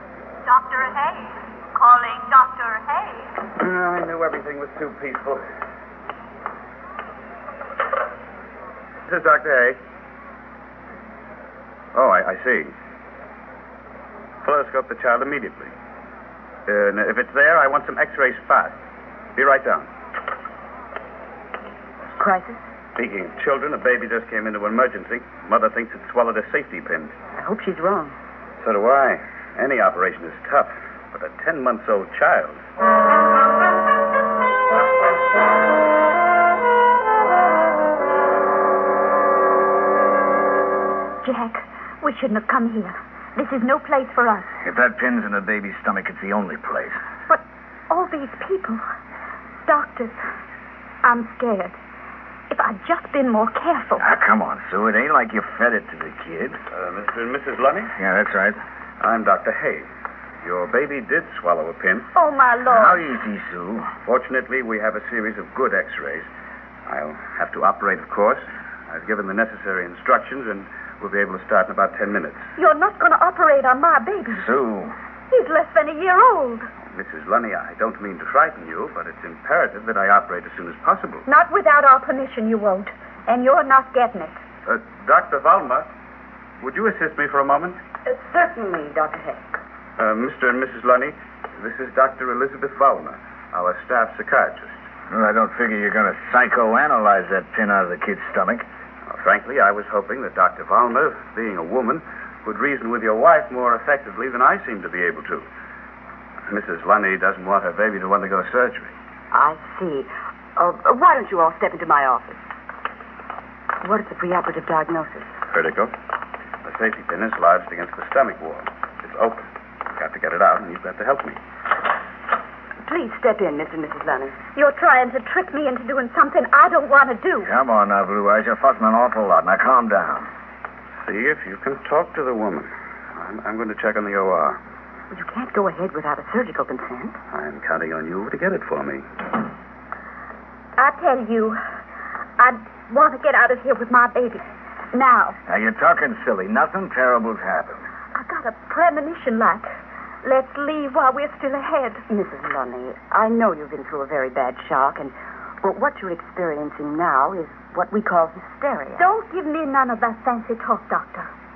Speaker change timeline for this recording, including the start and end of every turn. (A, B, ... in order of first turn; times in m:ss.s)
0:00.4-0:03.3 A
0:03.6-0:05.4 B
0:09.1-0:09.8 B
0:11.9-0:12.7 B
0:14.4-0:15.7 B
0:16.7-0:18.7 B
0:19.4-0:19.9 B
0:22.2-0:22.6 C
0:23.0-0:27.1 B
0:27.4-0:28.1 C
0:28.6-0:32.6 B
0:41.2-0:44.5 A
0:44.6-0:47.0 D
0:47.3-0:48.8 A
0:49.6-0:50.2 A
0:51.0-0:51.8 A
0:52.5-0:54.0 A
0:54.0-0:56.6 D
0:56.7-0:57.9 B
0:58.0-0:58.6 D
0:59.0-0:59.9 B
1:00.4-1:02.1 B
1:02.1-1:03.0 A
1:02.6-1:03.9 D
1:04.0-1:06.3 B
1:06.9-1:12.4 B
1:12.6-1:14.4 A
1:14.3-1:14.9 D
1:15.3-1:16.6 A
1:16.9-1:21.2 B
1:21.2-1:24.4 A
1:24.6-1:25.9 B
1:26.6-1:27.8 B
1:28.0-1:29.4 C
1:30.0-1:34.8 B
1:35.1-1:38.6 D
1:39.1-1:45.5 B
1:46.5-1:48.9 B
1:49.3-1:52.4 C
1:53.8-1:55.3 C
1:55.5-1:55.9 B
1:56.6-1:59.4 B
2:00.0-2:01.4 B
2:02.8-2:04.4 C
2:04.5-2:07.5 A
2:07.4-2:10.3 D
2:11.0-2:14.6 B
2:15.1-2:17.2 C
2:17.3-2:19.0 B
2:20.8-2:21.6 A
2:22.4-2:24.4 A
2:24.9-2:25.4 A
2:25.5-2:27.8 D
2:28.1-2:29.7 A
2:30.2-2:32.0 A
2:32.1-2:39.0 C
2:39.0-2:41.3 A